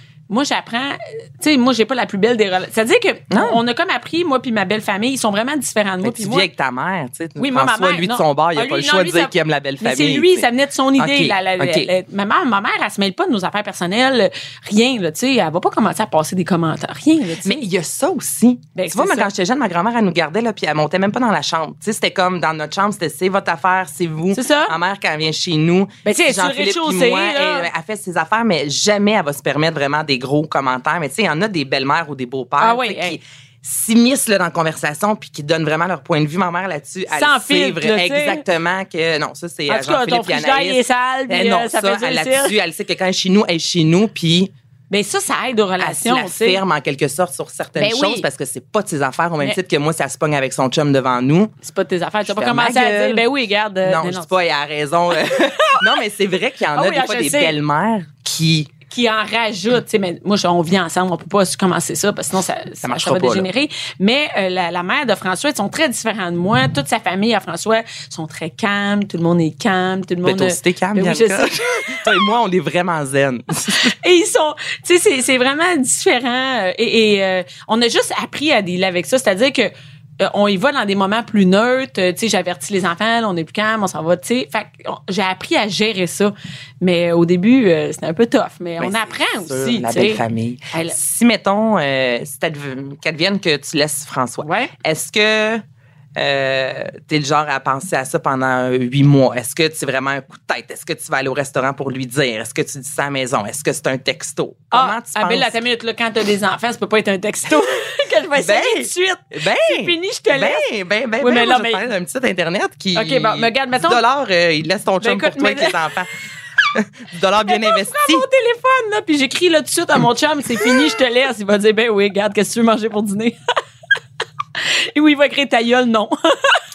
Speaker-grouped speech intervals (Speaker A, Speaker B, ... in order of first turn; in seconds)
Speaker A: 0.3-6.5, 7.4-17.6, 18.7-19.3, 24.3-24.7, 26.0-27.7, 32.6-33.2, 37.1-38.4, 39.7-42.5, 44.9-46.6, 47.8-48.2, 51.6-54.3, 55.3-55.8, 56.7-57.5, 58.9-72.0, 73.7-91.0, 94.4-94.7, 104.7-110.6, 111.2-111.8, 112.9-114.0, 115.0-115.8, 117.5-123.4, 124.6-126.6
Speaker B: 3.3-3.6, 6.0-11.9, 17.4-44.5, 45.8-51.5, 52.3-53.2, 53.8-58.7, 62.8-63.5, 70.2-73.9, 88.8-95.6, 96.2-105.5, 108.4-116.1, 116.7-118.2